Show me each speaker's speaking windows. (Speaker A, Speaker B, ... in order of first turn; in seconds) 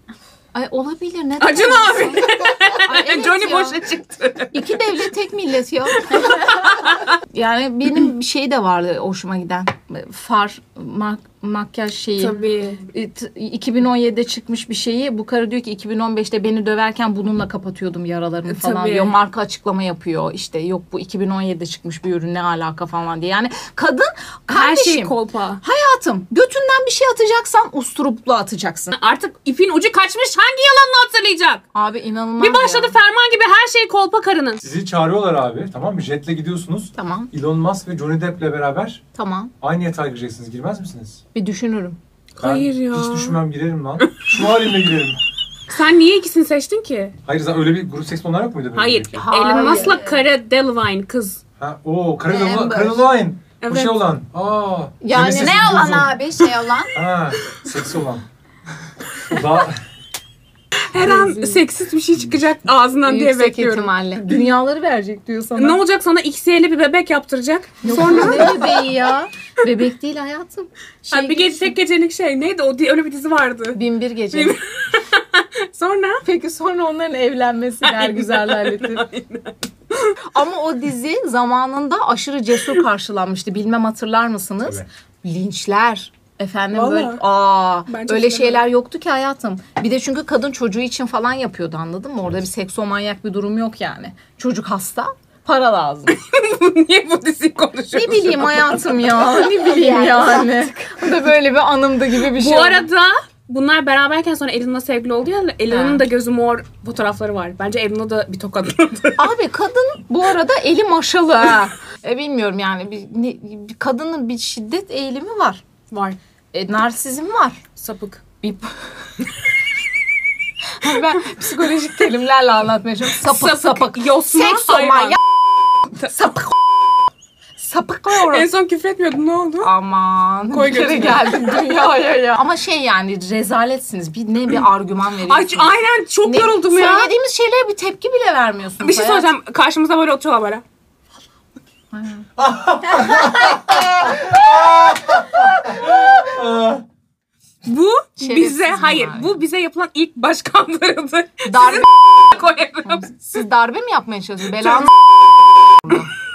Speaker A: 0.5-2.3, 2.8-3.8, 4.5-28.9, 31.7-33.0, 37.0-37.3, 39.1-39.5, 41.3-42.0, 49.2-50.1, 52.3-53.1, 55.0-56.1, 61.0-61.6, 63.0-65.8, 67.8-71.8, 73.7-74.6, 76.2-79.0, 80.3-96.2, 97.9-102.9, 105.7-106.0, 109.2-115.6, 116.5-117.6, 118.4-118.7, 120.8-125.2, 126.1-126.6, 127.6-128.5, 129.6-139.3, 141.9-142.3, 148.2-149.4, 151.5-151.9, 152.9-154.9, 155.8-156.1
Speaker B: 1.4-4.7, 6.1-7.0, 12.2-12.8, 18.5-19.2, 24.5-25.6, 28.9-31.6, 32.4-34.6, 42.4-43.4, 44.0-44.4, 45.7-47.1, 48.7-51.4, 53.6-54.0, 60.9-63.9, 65.6-68.8, 71.1-73.8, 74.3-76.2, 77.8-80.2, 86.7-87.2, 87.9-88.6, 96.1-99.1, 99.7-100.1, 102.3-109.3, 115.9-116.2, 117.8-118.2, 123.2-125.2, 128.1-129.7, 130.5-131.7, 135.3-137.1, 138.8-140.6, 147.7-153.2
Speaker C: 34.6-39.0, 39.6-41.2, 42.4-45.2, 47.2-49.3, 51.6-56.2, 56.9-58.2, 59.3-59.8, 142.4-146.8
Speaker D: 49.3-50.0, 55.3-56.9